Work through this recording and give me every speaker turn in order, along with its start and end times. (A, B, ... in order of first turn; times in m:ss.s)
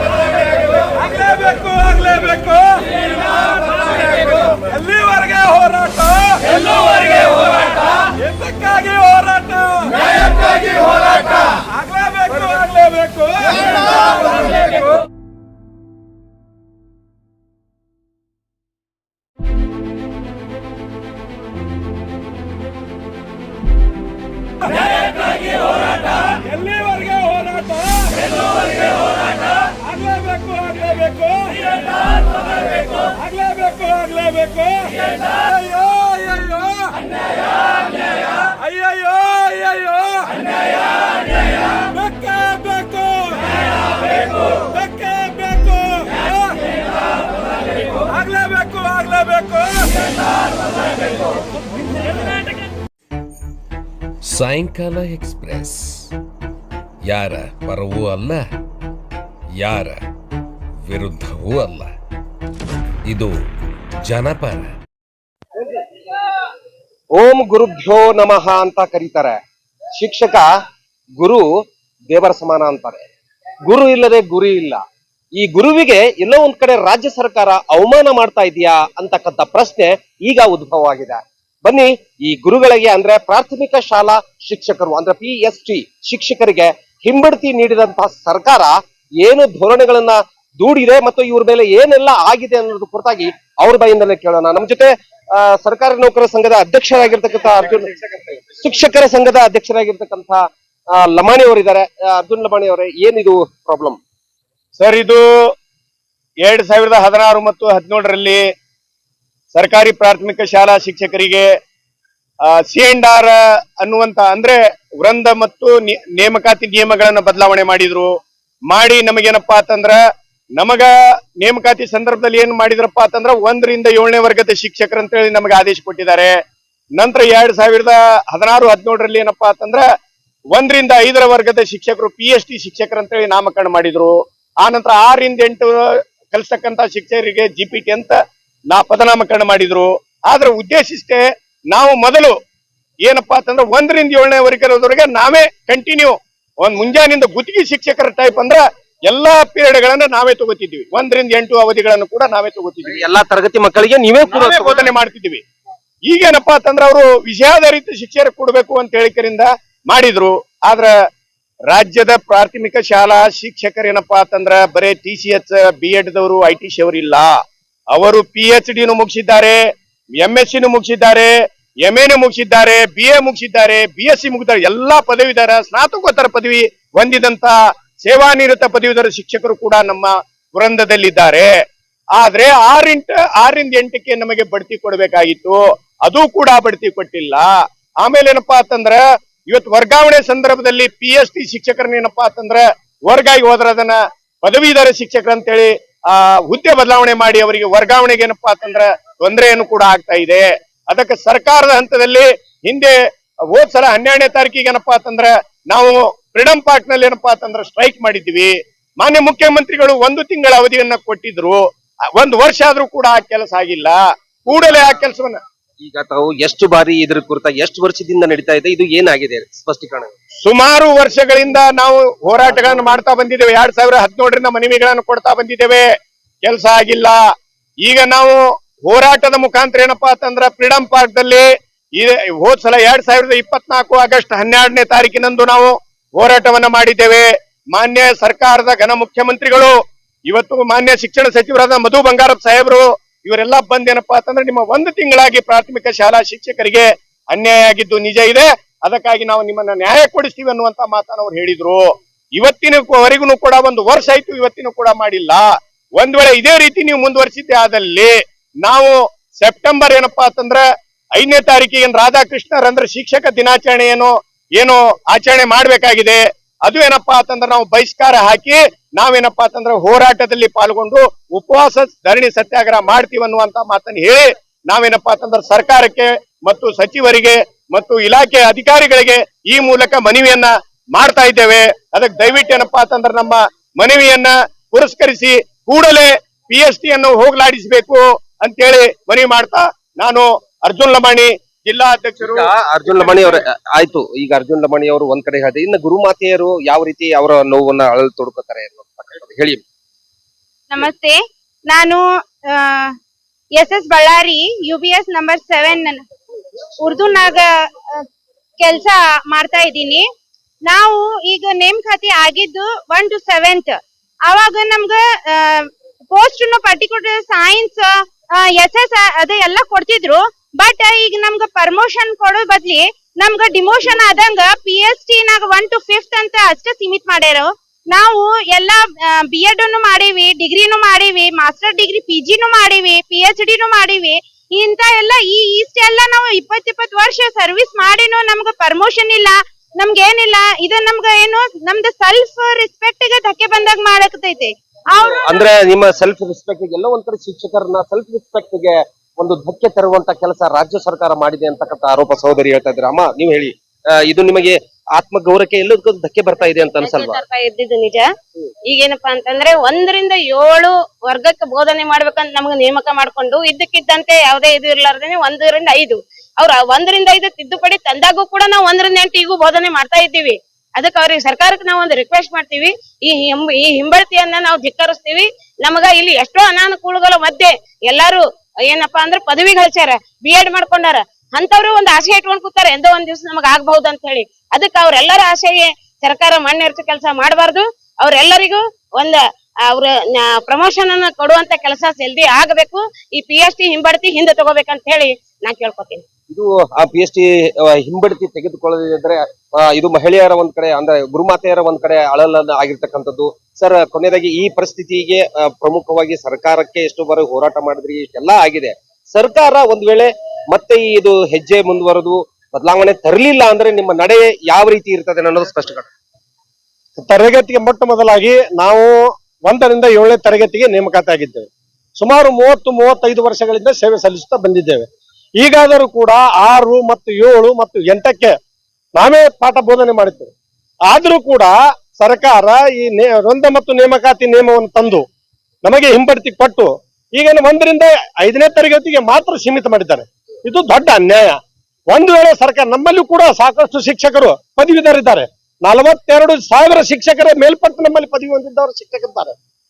0:01.0-0:02.8 A
0:04.6-0:06.6 A
0:08.4-0:09.9 A
0:11.9-0:13.7 A
0:26.3-0:28.1 A
0:29.9-0:31.6 A
0:33.2-0:34.9 A
0:35.8-0:36.8 A
0:38.6-0:40.3 A
0:42.0-0:43.3 A
0:44.7-0:46.2 A
0:48.1-0:49.8 A
0:54.2-0:56.1 B
0:57.1-0:58.4 B
0:59.6-1:00.0 B
1:00.9-1:01.9 B
1:04.0-1:04.7 B
1:07.1-1:09.4 C
1:10.0-1:10.4 C
1:11.2-1:11.4 C
1:12.1-1:13.0 C
1:13.6-1:14.8 C
1:15.3-1:44.0 C
1:44.8-1:45.5 D
1:46.4-1:48.4 D
1:49.5-1:51.5 D
1:52.4-1:58.1 D
1:58.7-2:00.0 D
2:00.6-2:06.4 D
2:07.0-2:09.8 D
2:10.5-2:15.8 D
2:16.3-2:18.2 D
2:18.7-2:22.3 D
2:23.0-2:33.0 D
2:32.8-2:34.9 C
2:34.3-2:35.4 D
2:36.0-2:40.9 D
2:41.7-2:47.3 D
2:47.9-2:49.6 D
2:50.2-3:01.5 D
3:02.1-3:22.9 D
3:23.5-3:31.6 D
3:32.1-3:35.4 D
3:35.8-3:40.1 C
3:40.4-3:45.8 D
3:42.6-3:42.9 C
3:46.4-3:47.2 D
3:47.8-3:59.7 D
4:00.3-4:20.6 D
4:21.1-4:53.4 D
4:52.2-4:59.6 C
5:00.7-5:02.9 E
5:03.6-5:06.0 E
5:06.8-5:08.0 E
5:08.6-5:10.0 E
5:10.7-5:45.4 E
5:45.0-5:57.2 C
5:56.5-5:58.0 F
5:58.7-6:29.2 F
6:29.7-6:36.0 F
6:36.3-6:55.9 C
6:57.0-6:58.9 G
6:59.4-7:04.9 G
7:05.4-7:08.3 G
7:09.0-7:10.3 G
7:10.9-7:15.0 G
7:15.6-7:21.4 G
7:21.9-7:29.3 G